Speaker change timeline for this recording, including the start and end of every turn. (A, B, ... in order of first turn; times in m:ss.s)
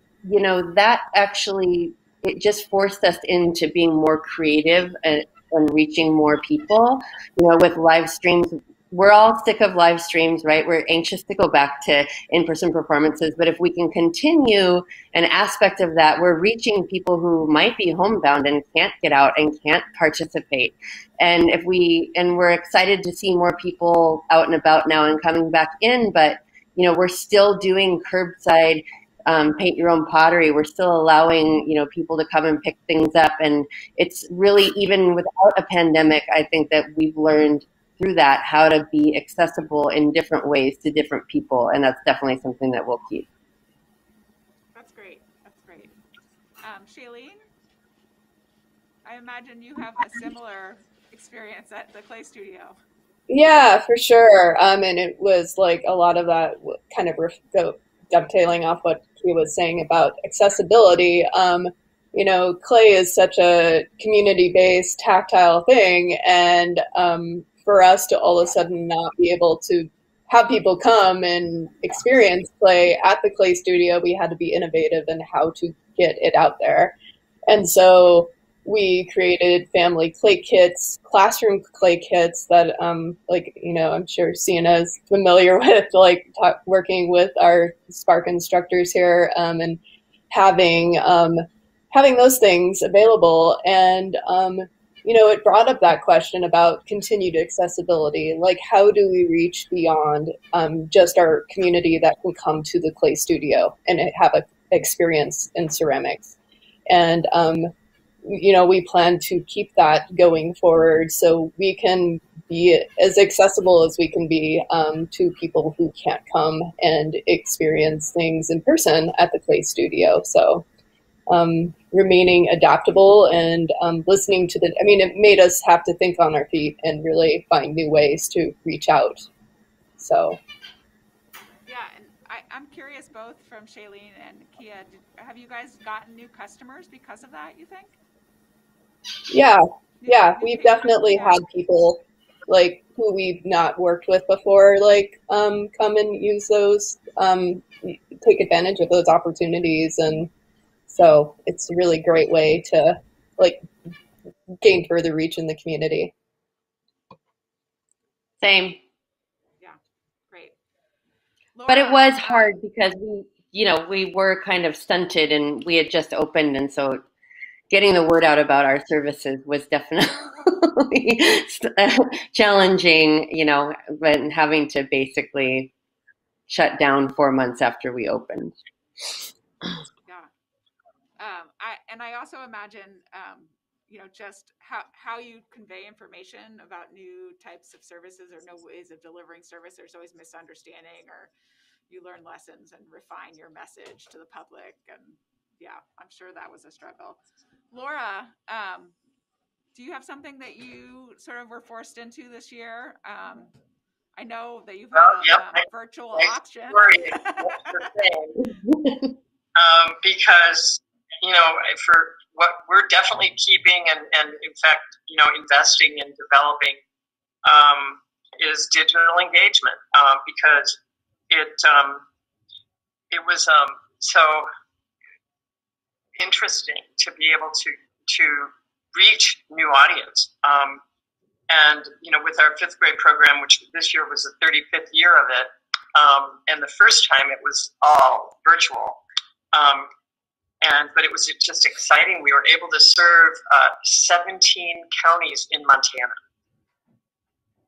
0:00.2-0:43.3 A
0:44.8-0:45.9 B
0:46.6-0:47.4 B
0:49.0-0:52.8 B
0:53.3-1:16.9 C
1:17.5-1:29.8 C
1:30.3-1:46.4 C
1:46.9-1:47.7 C
1:48.3-2:00.6 C
2:01.3-2:09.3 C
2:10.0-2:10.4 C
2:11.7-2:18.0 B
2:19.3-2:30.3 C
2:20.0-2:21.4 B
2:30.9-2:33.6 C
2:34.6-2:36.1 C
2:38.4-2:38.8 A
2:41.6-2:42.5 B
2:41.7-2:47.0 A
2:47.7-2:55.7 A
2:56.5-2:58.6 A
3:01.2-3:11.3 B
3:11.9-3:17.2 B
3:17.7-3:18.9 B
3:19.8-3:23.5 B
3:24.2-3:27.9 B
3:24.9-3:28.4 D
3:28.7-3:29.1 A
3:29.6-3:36.8 D
3:37.4-3:40.8 D
3:41.3-3:42.0 D
3:43.1-3:44.5 D
3:46.2-3:50.8 D
3:51.5-3:59.0 D
3:59.5-3:59.9 D
4:00.6-4:06.2 D